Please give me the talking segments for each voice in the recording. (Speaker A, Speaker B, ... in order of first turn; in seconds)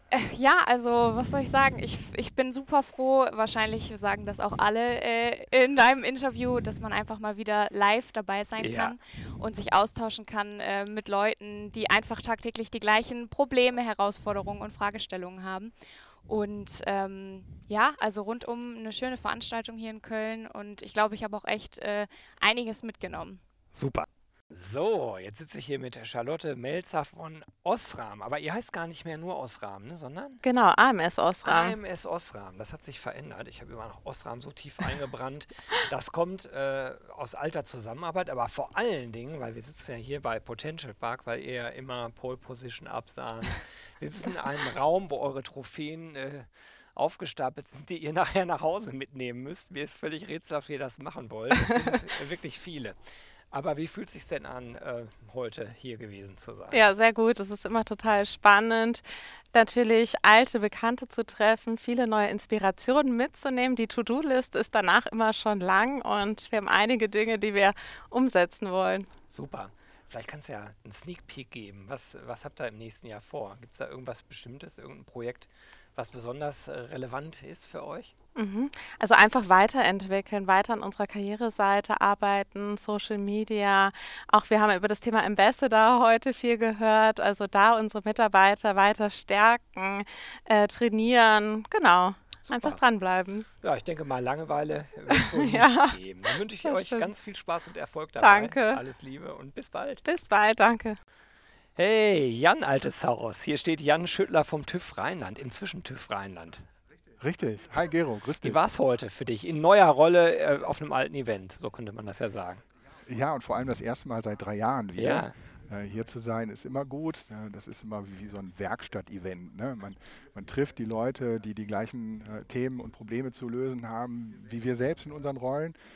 Speaker A: 0.1-15.7, 16.2-23.4
Speaker B: 8.6-8.9, 23.7-30.4, 31.4-52.9, 53.5-56.8, 69.3-78.1, 92.5-92.8, 93.6-100.0, 101.8-106.7, 108.4-112.6, 114.9-115.3
Speaker C: 30.4-31.8, 56.7-69.1, 78.3-93.5, 95.1-96.0, 96.6-97.1, 98.2-98.8, 100.0-101.0
Speaker D: 107.2-108.6, 113.0-125.8